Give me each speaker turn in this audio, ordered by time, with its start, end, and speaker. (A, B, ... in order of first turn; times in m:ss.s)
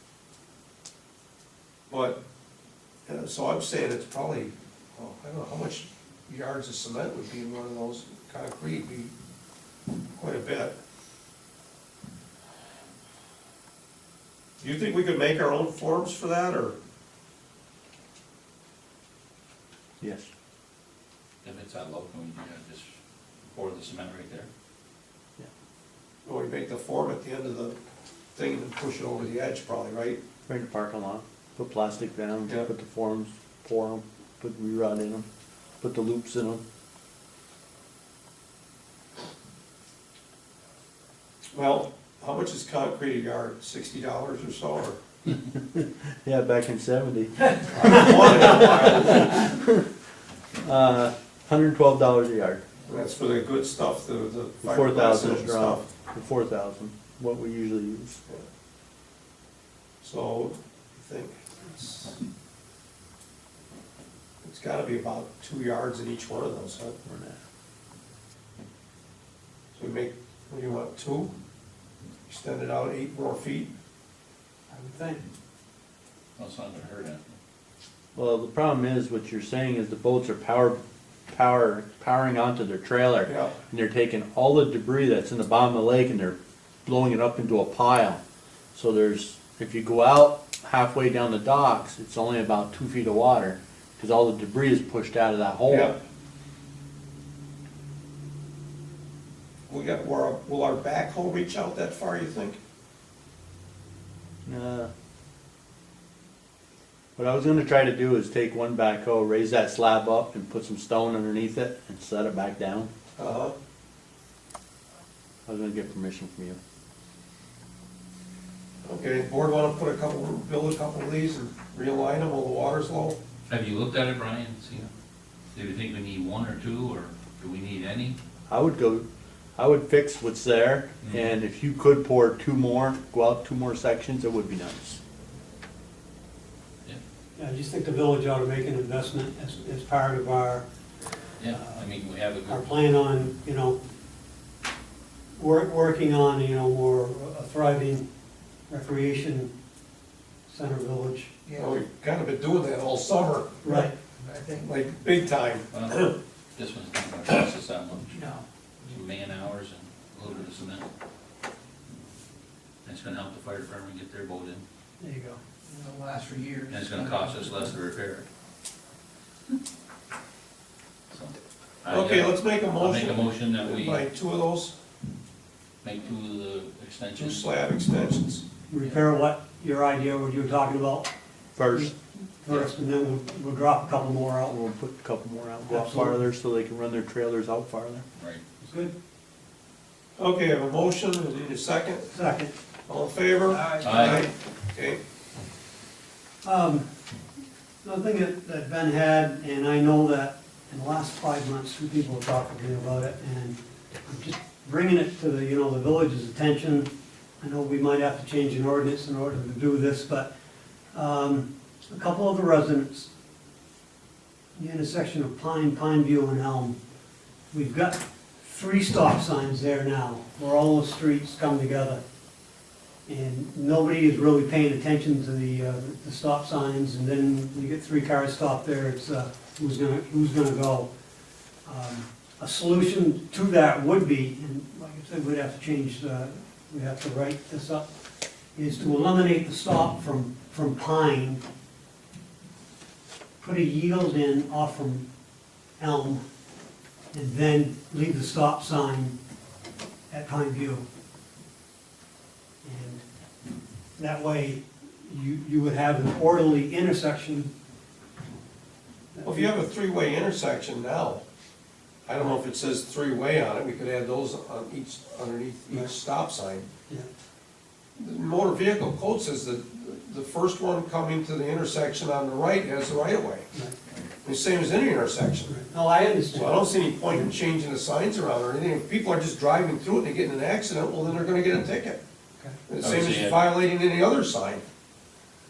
0:01.9-0:02.2 A
0:03.0-0:09.1 A
0:10.2-0:10.7 A
0:14.6-0:16.8 A
0:20.0-0:20.3 B
0:21.4-0:22.9 C
0:23.5-0:24.5 C
0:26.2-0:27.8 A
0:28.3-0:30.2 A
0:30.5-0:35.2 B
0:35.8-0:36.6 B
0:41.5-0:45.0 A
0:45.5-0:49.9 B
0:47.6-0:49.4 A
0:50.6-0:52.6 B
0:52.8-0:55.9 A
0:54.6-0:58.2 B
1:00.0-1:02.2 A
1:04.4-1:07.0 A
1:07.0-1:07.4 B
1:09.7-1:11.3 A
1:12.3-1:13.7 A
1:14.7-1:15.2 D
1:16.4-1:17.3 C
1:18.1-1:28.2 B
1:23.2-1:23.6 A
1:28.7-1:36.0 B
1:35.7-1:36.0 A
1:39.7-1:42.6 A
1:44.4-1:44.9 B
1:47.2-1:52.9 B
1:53.2-1:53.6 A
1:55.4-1:56.6 B
1:58.8-2:03.2 A
2:03.5-2:04.9 C
2:05.5-2:08.2 C
2:08.5-2:15.0 B
2:17.4-2:20.6 D
2:21.4-2:22.6 C
2:21.5-2:21.9 D
2:22.4-2:23.8 D
2:25.4-2:28.1 D
2:28.7-2:29.5 D
2:30.5-2:31.3 D
2:31.4-2:31.8 E
2:31.6-2:33.8 A
2:33.6-2:34.0 D
2:33.7-2:34.7 E
2:34.6-2:36.1 A
2:35.7-2:38.1 C
2:38.1-2:39.0 E
2:38.9-2:40.8 C
2:42.8-2:44.6 C
2:45.0-2:45.4 D
2:45.6-2:47.5 E
2:46.7-2:48.3 C
2:51.1-2:54.1 C
2:51.9-2:54.7 A
2:55.8-2:57.4 C
2:57.2-2:58.4 A
2:58.7-3:01.1 D
3:01.6-3:01.9 B
3:01.7-3:04.5 D
3:04.5-3:08.0 B
3:05.7-3:06.2 D
3:08.2-3:08.4 C
3:08.6-3:08.9 D
3:10.2-3:12.1 A
3:12.1-3:12.5 D
3:12.9-3:15.0 A
3:13.5-3:14.2 D
3:13.8-3:14.3 C
3:16.4-3:16.8 D
3:17.8-3:26.9 D
3:27.4-3:30.3 D
3:30.9-3:33.1 D
3:34.5-3:36.8 D
3:37.5-3:42.0 D
3:43.0-3:50.9 D
3:51.6-3:57.9 D
3:58.5-4:01.4 D
4:03.4-4:05.0 D
4:05.8-4:06.2 D
4:07.1-4:09.2 D
4:10.1-4:10.8 D
4:12.6-4:13.0 D
4:14.0-4:17.5 D
4:19.1-4:19.5 D
4:19.2-4:21.2 A
4:22.0-4:26.7 A
4:28.0-4:33.5 A
4:33.5-4:33.8 D
4:34.2-4:35.5 A
4:35.5-4:37.3 D
4:36.3-4:42.0 A
4:42.7-4:44.6 A
4:42.8-4:43.4 C